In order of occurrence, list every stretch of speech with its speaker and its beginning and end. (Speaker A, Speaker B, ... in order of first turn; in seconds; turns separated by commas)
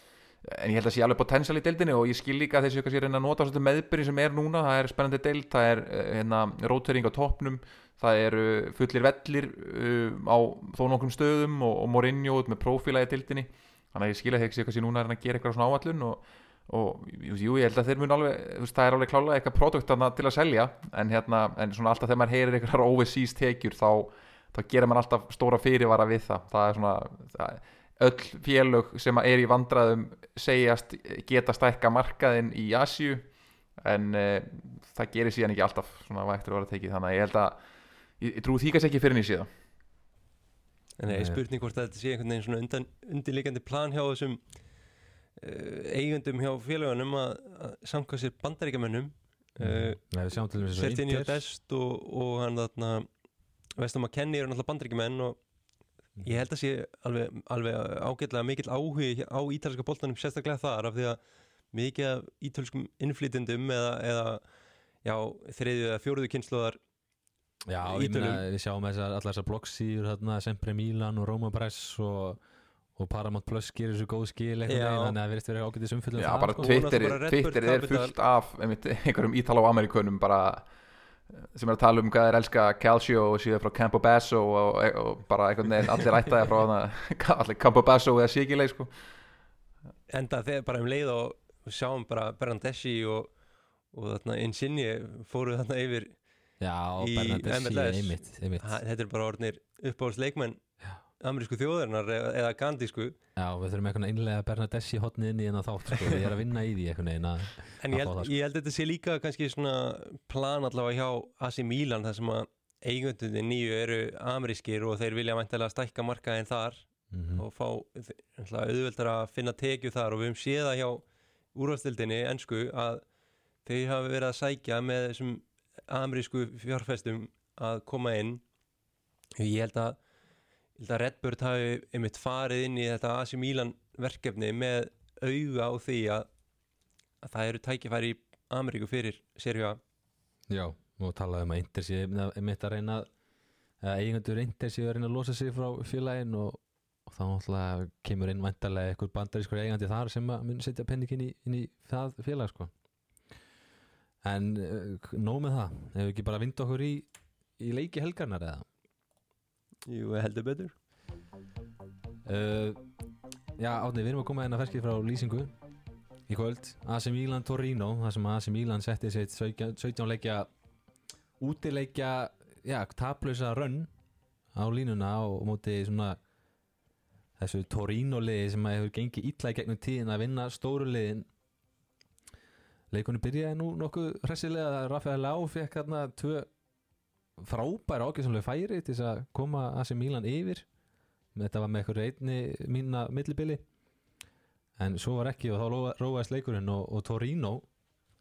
Speaker A: 0.4-37.6, Speaker A: 38.2-39.5, Speaker B: 41.0-44.5, Speaker C: 41.1-41.4, Speaker B: 45.4-53.1, Speaker C: 49.6-51.4, Speaker B: 53.8-55.4, Speaker B: 56.2-61.2, Speaker B: 61.7-64.4, Speaker B: 65.0-66.8, Speaker C: 67.7-72.4, Speaker B: 67.8-68.4, Speaker C: 73.0-77.0, Speaker B: 74.7-75.1, Speaker A: 76.2-80.7, Speaker B: 76.6-78.1, Speaker A: 81.4-88.9, Speaker B: 90.1-93.3, Speaker B: 93.9-96.2, Speaker C: 96.6-98.7, Speaker B: 97.0-100.6, Speaker B: 101.2-103.2, Speaker C: 103.3-108.3, Speaker B: 107.8-121.0, Speaker C: 117.1-117.4, Speaker B: 121.5-123.0, Speaker B: 123.6-128.4, Speaker B: 129.4-130.0, Speaker B: 130.8-136.3, Speaker B: 137.2-139.8, Speaker C: 140.5-143.1, Speaker C: 143.8-152.7, Speaker C: 154.2-158.6, Speaker B: 159.8-160.7, Speaker C: 162.2-162.8, Speaker C: 163.6-165.5, Speaker C: 166.3-170.5, Speaker C: 171.4-173.9, Speaker C: 174.5-176.2, Speaker C: 177.4-181.3, Speaker C: 182.9-186.5, Speaker C: 187.4-190.7, Speaker C: 191.3-193.6, Speaker C: 194.8-197.7